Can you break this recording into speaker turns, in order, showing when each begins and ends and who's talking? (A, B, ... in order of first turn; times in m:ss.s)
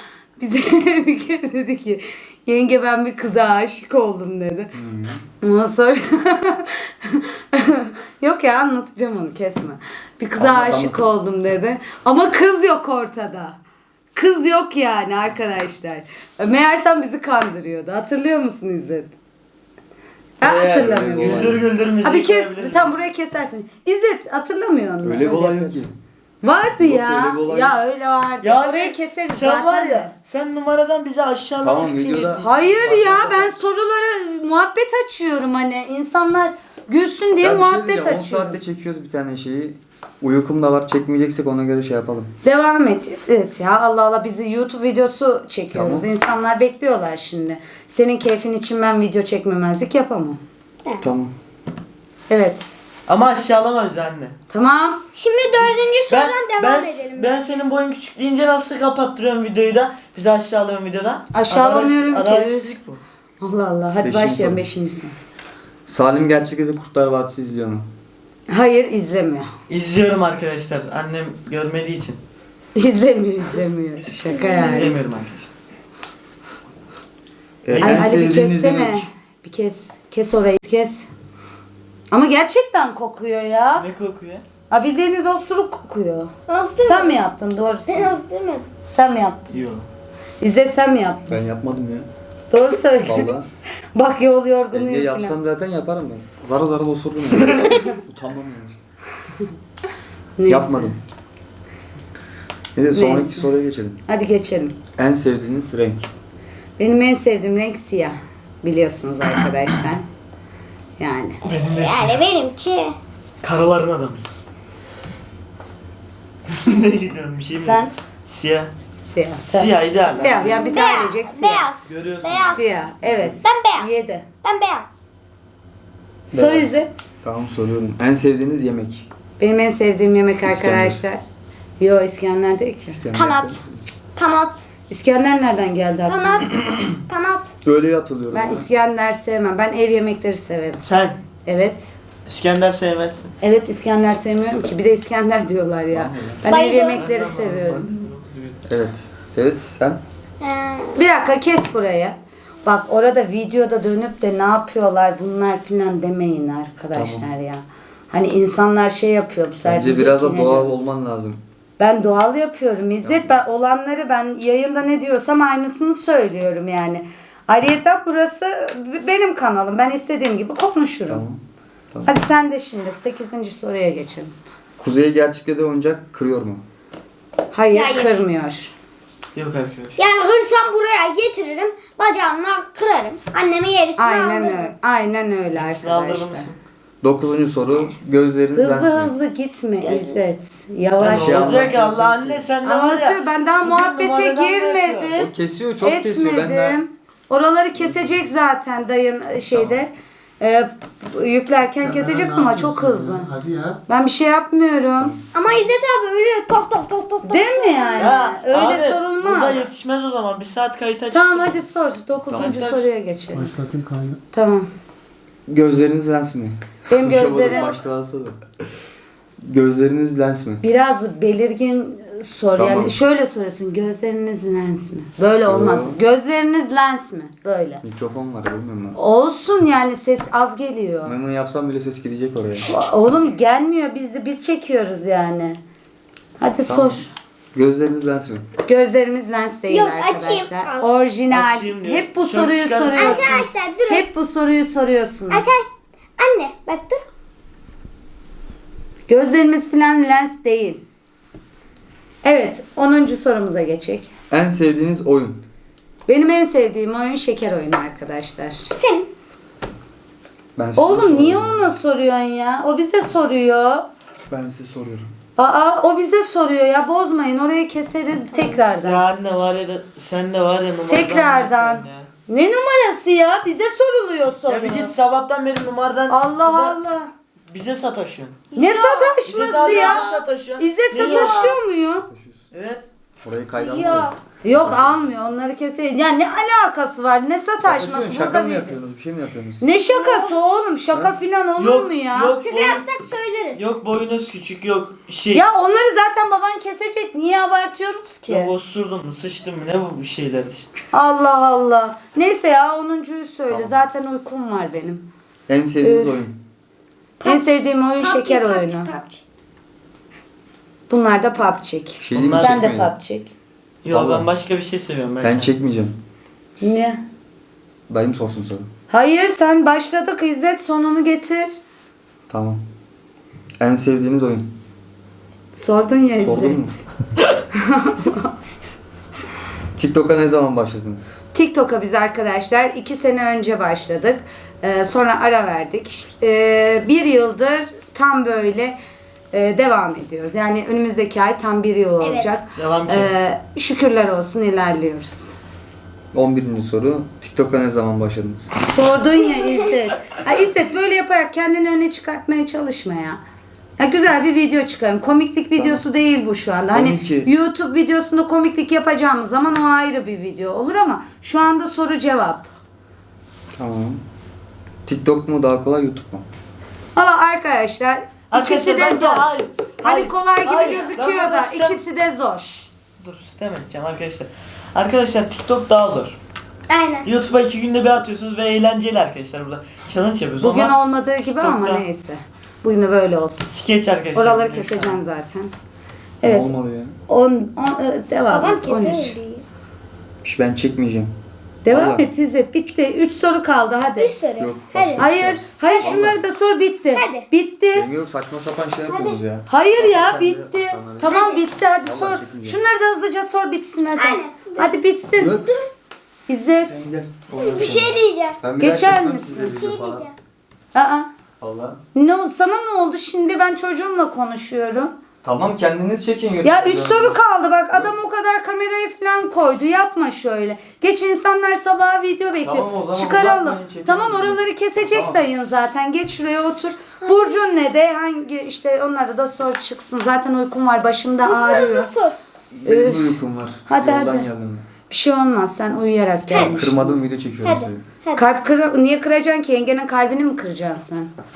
0:00.4-0:04.7 A
0:04.7-0:05.2 B
0:05.4-0:13.6 A
0:10.4-0:11.0 B
0:14.1-0:19.1 A
0:20.4-0:25.8 A
0:20.4-0:22.9 C
0:20.6-0:21.6 B
0:25.0-0:25.9 B
0:26.4-0:30.1 A
0:26.8-0:27.8 B
0:28.4-0:32.4 C
0:31.6-0:33.5 B
0:32.3-0:38.6 A
0:37.4-0:42.3 B
0:42.4-0:50.4 A
0:45.7-0:46.1 B
0:51.0-0:51.3 B
0:52.3-0:52.7 A
0:53.1-0:54.3 C
0:54.5-0:55.0 A
0:55.2-0:57.3 D
0:55.6-1:03.0 C
1:01.3-1:02.7 A
1:03.4-1:05.1 A
1:04.0-1:04.6 B
1:05.9-1:07.9 B
1:08.5-1:09.5 A
1:09.7-1:12.2 C
1:12.7-1:15.0 A
1:14.4-1:15.5 C
1:17.6-1:19.0 B
1:17.7-1:18.2 C
1:17.8-1:21.1 A
1:22.1-1:23.8 A
1:23.7-1:24.4 C
1:24.7-1:26.3 A
1:26.5-1:27.2 D
1:26.8-1:28.2 A
1:27.9-1:28.7 D
1:28.9-1:29.4 A
1:29.5-1:29.9 C
1:30.4-1:31.4 A
1:31.3-1:32.1 B
1:32.5-1:33.3 A
1:33.0-1:33.5 B
1:33.9-1:35.3 A
1:34.7-1:38.8 B
1:40.4-1:40.9 A
1:40.4-1:41.0 B
1:42.7-1:44.0 B
1:42.9-1:43.5 A
1:44.1-1:44.8 A
1:45.0-1:46.1 B
1:46.8-1:50.0 A
1:51.0-1:51.4 A
1:51.4-1:52.2 C
1:51.7-1:53.0 D
1:53.4-1:54.3 C
1:56.5-1:58.7 C
1:57.6-1:57.9 A
1:59.0-2:01.7 A
1:59.5-2:00.6 C
2:00.3-2:02.6 D
2:01.9-2:02.6 C
2:02.4-2:04.2 A
2:03.4-2:03.9 D
2:04.4-2:04.9 D
2:06.3-2:09.1 B
2:06.3-2:06.9 A
2:09.4-2:11.2 A
2:10.4-2:11.0 B
2:11.8-2:13.0 A
2:12.9-2:13.9 B
2:13.1-2:13.6 D
2:14.1-2:14.6 D
2:14.9-2:16.5 A
2:16.0-2:17.5 D
2:17.6-2:18.7 B
2:18.3-2:20.8 A
2:20.8-2:21.2 C
2:21.4-2:21.9 A
2:22.3-2:23.3 C
2:23.4-2:27.8 A
2:25.9-2:26.4 B
2:26.5-2:27.0 D
2:26.9-2:28.6 C
2:28.6-2:30.0 B
2:30.4-2:31.0 D
2:30.9-2:40.7 A
2:36.9-2:37.2 B
2:39.6-2:41.4 B
2:41.8-2:51.2 A
2:43.0-2:43.4 B
2:51.1-2:51.4 B
2:51.9-2:52.2 B
2:52.0-2:54.3 A
2:54.8-2:56.6 B
2:57.5-2:58.7 A
2:57.7-2:58.2 D
2:59.3-3:00.0 C
3:00.0-3:04.7 D
3:04.0-3:06.5 A
3:05.5-3:06.6 C
3:07.0-3:09.1 B
3:08.6-3:11.7 A
3:09.8-3:10.2 D
3:11.0-3:15.1 C
3:11.0-3:12.4 B
3:12.6-3:23.3 A
3:15.2-3:16.8 B
3:17.8-3:18.1 B
3:19.5-3:19.8 B
3:21.8-3:23.8 E
3:23.9-3:25.2 A
3:25.3-3:28.1 D
3:27.2-3:29.6 A
3:28.0-3:31.6 C
3:31.1-3:33.5 A
3:32.3-3:32.6 B
3:32.4-3:32.9 C
3:33.3-3:34.2 E
3:34.3-3:34.7 A
3:35.5-3:38.4 B
3:36.9-3:37.7 A
3:37.3-3:37.7 D
3:39.4-3:40.6 B
3:40.6-3:47.8 A
3:42.6-3:43.0 B
3:45.4-3:46.0 B
3:47.8-3:49.0 B
3:48.9-3:51.2 A
3:51.0-3:52.7 B
3:52.6-3:55.6 A
3:56.4-3:57.1 A
3:56.6-3:58.5 B
3:58.6-4:05.5 A
3:59.7-4:00.9 D
4:01.3-4:03.3 C
4:02.9-4:04.0 D
4:05.3-4:07.0 D
4:09.1-4:10.8 A
4:12.2-4:14.1 A
4:14.3-4:15.4 B
4:16.1-4:18.7 A
4:18.7-4:19.1 D
4:20.6-4:21.8 B
4:20.8-4:23.8 A
4:24.3-4:25.1 B
4:25.4-4:29.0 A
4:28.8-4:32.1 C
4:30.9-4:34.9 A
4:34.5-4:36.8 C
4:36.1-4:37.1 A
4:37.5-4:38.4 C
4:38.5-4:40.2 D
4:38.6-4:40.0 A
4:39.2-4:41.6 C
4:40.6-4:42.1 A
4:40.9-4:41.6 D
4:42.0-4:42.4 B
4:42.5-4:42.8 C
4:43.2-4:45.0 B
4:43.6-4:44.2 D
4:44.4-4:48.8 A
4:47.6-4:49.6 B
4:49.6-4:52.4 A
4:49.9-4:50.4 D
4:51.6-4:52.8 C
4:52.4-4:53.7 D
4:53.5-4:55.4 C
4:55.3-4:58.5 A
4:58.3-5:00.7 C
5:00.9-5:05.1 A
5:03.5-5:03.8 B
5:05.5-5:06.4 B
5:05.8-5:06.2 A
5:07.2-5:07.4 D
5:07.2-5:08.9 A
5:08.0-5:09.2 D
5:10.9-5:13.3 A
5:12.0-5:12.9 B
5:12.1-5:12.7 C
5:13.8-5:15.5 C
5:13.9-5:14.3 B
5:15.2-5:16.0 B
5:16.6-5:17.0 A
5:17.9-5:18.7 B
5:18.9-5:21.5 A
5:22.3-5:22.6 B
5:23.6-5:24.5 B
5:25.5-5:26.8 A
5:26.2-5:26.8 B
5:27.6-5:28.3 A
5:29.7-5:31.2 B
5:31.3-5:38.8 A
5:39.3-5:45.3 A
5:42.0-5:42.4 D
5:42.6-5:43.1 C
5:46.1-5:48.5 B
5:48.7-5:53.2 A
5:49.2-5:49.6 D
5:53.8-6:02.5 A
5:55.6-5:55.8 B
5:56.7-5:57.3 B
6:03.6-6:04.0 B
6:04.8-6:06.2 B
6:07.0-6:12.7 A
6:08.3-6:11.8 C
6:13.0-6:16.2 C
6:16.7-6:17.1 D
6:17.0-6:21.8 C
6:20.4-6:23.5 A
6:23.5-6:25.0 C
6:24.1-6:25.5 A
6:26.2-6:26.9 B
6:26.2-6:26.5 A
6:27.1-6:29.1 A
6:28.3-6:29.4 D
6:30.2-6:31.1 B
6:31.6-6:34.1 A
6:31.7-6:32.1 B
6:34.0-6:35.1 D
6:34.4-6:36.2 B
6:35.0-6:37.8 A
6:35.6-6:36.0 D
6:36.9-6:37.2 D
6:37.7-6:41.1 B
6:38.9-6:39.2 D
6:39.5-6:45.4 A
6:41.0-6:41.5 D
6:41.8-6:42.6 B
6:44.0-6:44.7 D
6:45.2-6:45.4 B
6:45.3-6:45.7 D
6:46.3-6:46.9 A
6:46.6-6:50.0 B
6:47.4-6:48.4 D
6:48.6-6:49.6 A
6:49.4-6:50.1 D
6:50.7-6:51.1 A
6:51.4-6:51.8 B
6:51.9-6:54.9 A
6:55.2-6:57.2 B
6:56.4-7:11.9 A
7:02.4-7:05.2 B
7:07.0-7:07.4 D
7:11.2-7:12.2 D
7:12.5-7:14.6 B
7:12.6-7:14.2 A
7:14.9-7:17.0 A
7:16.3-7:16.6 D
7:16.5-7:17.8 B
7:17.4-7:18.2 D
7:18.1-7:21.1 A